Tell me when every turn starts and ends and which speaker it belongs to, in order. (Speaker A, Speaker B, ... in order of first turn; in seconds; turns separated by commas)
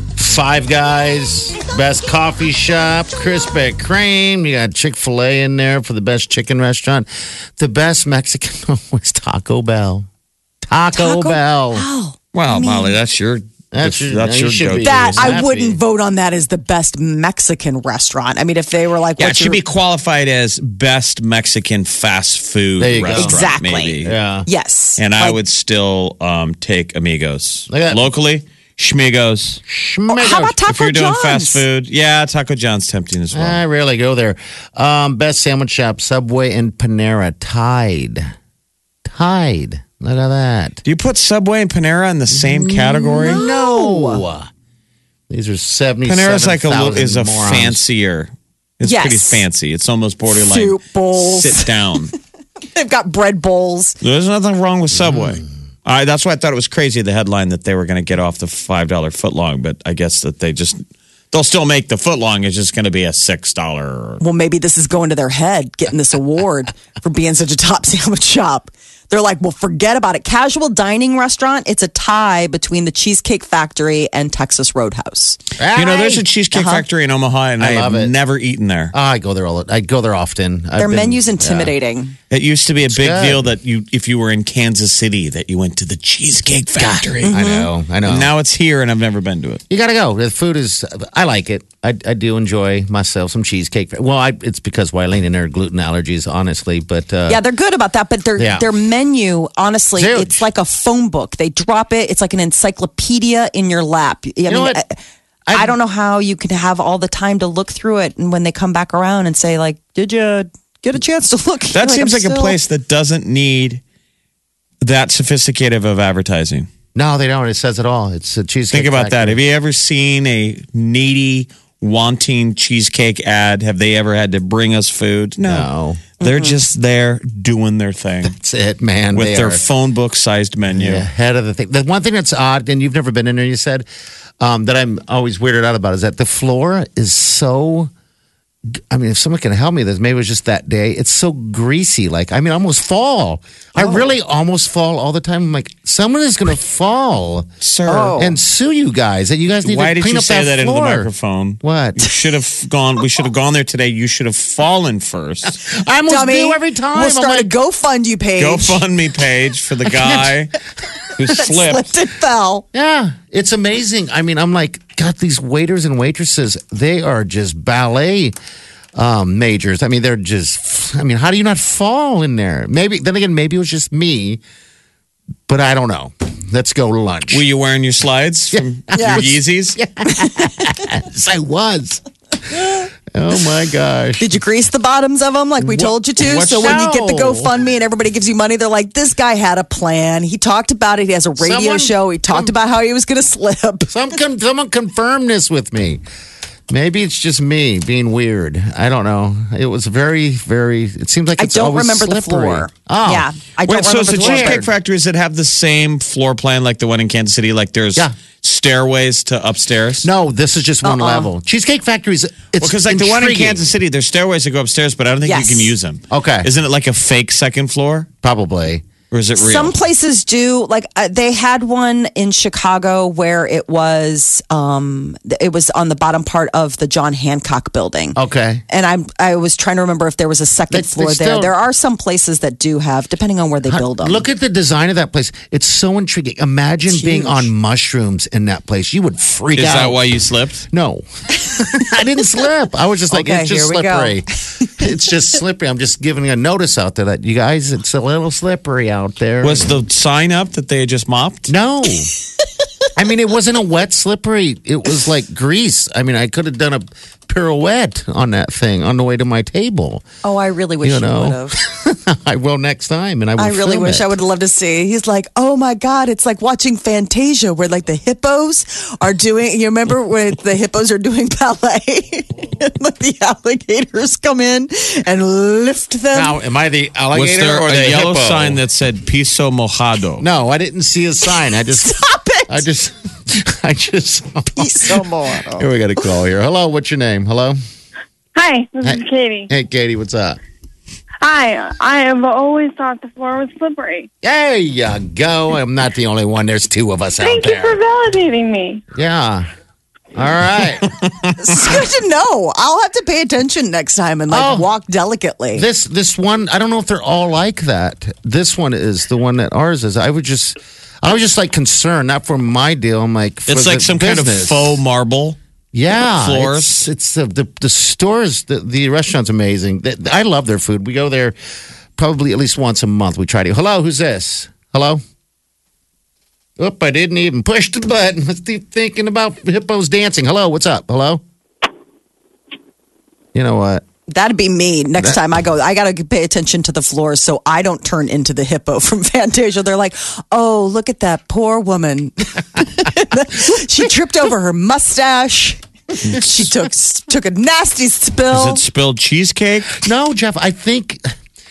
Speaker A: 0.1-7.0, Speaker A: 7.6-10.1, Speaker A: 10.6-11.8, Speaker B: 10.9-12.9, Speaker C: 12.3-15.8, Speaker A: 13.7-15.4, Speaker B: 14.8-19.6, Speaker C: 19.2-24.2, Speaker A: 22.8-23.4, Speaker B: 23.2-25.4, Speaker A: 24.0-24.5, Speaker C: 25.0-29.6, Speaker A: 27.7-28.1, Speaker A: 29.6-30.6, Speaker B: 30.1-31.6, Speaker C: 30.6-33.6, Speaker A: 33.3-38.3, Speaker A: 39.0-40.8, Speaker C: 40.8-43.4, Speaker A: 42.3-44.5, Speaker B: 43.2-44.2, Speaker A: 45.3-47.8, Speaker C: 46.0-52.1, Speaker B: 48.8-49.4, Speaker B: 50.3-51.7, Speaker B: 52.7-54.0, Speaker C: 54.0-64.2, Speaker A: 55.1-55.4, Speaker B: 64.2-75.4, Speaker A: 75.6-76.2, Speaker C: 75.7-78.9, Speaker B: 76.5-76.8, Speaker A: 77.6-78.1, Speaker A: 78.9-81.7, Speaker B: 80.8-82.2, Speaker C: 82.3-87.3, Speaker A: 82.9-83.5, Speaker A: 86.7-88.3, Speaker B: 87.2-87.7, Speaker C: 88.0-89.6, Speaker A: 89.7-97.4, Speaker B: 97.3-105.0, Speaker A: 98.4-98.7, Speaker A: 100.0-100.5, Speaker A: 104.5-104.8, Speaker A: 105.5-105.7, Speaker B: 105.5-112.6, Speaker C: 111.7-113.8, Speaker C: 114.8-116.7, Speaker A: 116.9-119.4, Speaker C: 118.7-128.3, Speaker A: 125.4-126.0, Speaker B: 126.2-126.6, Speaker A: 128.2-129.6, Speaker C: 129.1-131.1, Speaker A: 130.7-133.8, Speaker A: 134.4-137.9, Speaker A: 138.9-147.5, Speaker C: 147.6-148.2, Speaker B: 147.9-148.3, Speaker A: 148.2-151.1, Speaker C: 149.6-155.5, Speaker A: 151.6-152.1, Speaker A: 155.5-157.5, Speaker B: 156.1-158.8, Speaker C: 158.4-160.5, Speaker A: 159.9-160.3, Speaker C: 161.1-161.9, Speaker B: 161.3-162.6, Speaker A: 162.7-168.3, Speaker A: 168.9-174.4, Speaker A: 175.5-177.4, Speaker C: 177.3-179.8, Speaker A: 178.5-184.3, Speaker B: 178.9-179.2, Speaker B: 180.1-180.5, Speaker B: 184.2-193.9, Speaker A: 185.6-187.5, Speaker C: 186.2-186.8, Speaker A: 191.4-192.5, Speaker A: 193.9-196.0, Speaker A: 196.7-203.3, Speaker B: 201.4-204.6, Speaker C: 203.7-210.1, Speaker A: 204.1-204.7, Speaker A: 210.0-213.7, Speaker B: 210.8-211.3, Speaker C: 212.6-218.1, Speaker B: 215.2-215.7, Speaker A: 216.1-216.5, Speaker A: 218.2-218.8, Speaker C: 219.1-219.7, Speaker B: 219.4-228.2, Speaker A: 228.2-228.6, Speaker B: 228.7-234.2, Speaker A: 230.7-231.5, Speaker A: 233.7-240.0, Speaker B: 236.9-237.5, Speaker C: 239.6-240.7, Speaker A: 240.7-249.7, Speaker B: 243.1-244.8, Speaker C: 249.4-251.5, Speaker A: 251.5-252.1, Speaker A: 252.9-260.0, Speaker B: 260.2-261.5, Speaker A: 260.8-264.1, Speaker B: 263.4-276.3, Speaker A: 276.1-278.6, Speaker C: 277.1-280.3, Speaker A: 280.2-281.9, Speaker B: 281.6-282.6, Speaker A: 282.5-287.6, Speaker B: 284.6-285.7, Speaker D: 288.3-289.5, Speaker A: 288.8-290.4, Speaker D: 291.2-294.1, Speaker A: 294.2-297.8, Speaker D: 297.2-298.8, Speaker A: 298.9-299.5, Speaker A: 300.1-300.9, Speaker B: 301.4-305.6, Speaker A: 304.3-304.7, Speaker A: 305.5-314.8, Speaker C: 313.5-315.4, Speaker A: 315.7-321.3, Speaker C: 316.0-316.8, Speaker A: 322.0-325.0, Speaker A: 326.6-331.2, Speaker A: 333.3-333.8, Speaker B: 334.1-348.6, Speaker C: 348.3-349.8, Speaker A: 349.8-351.0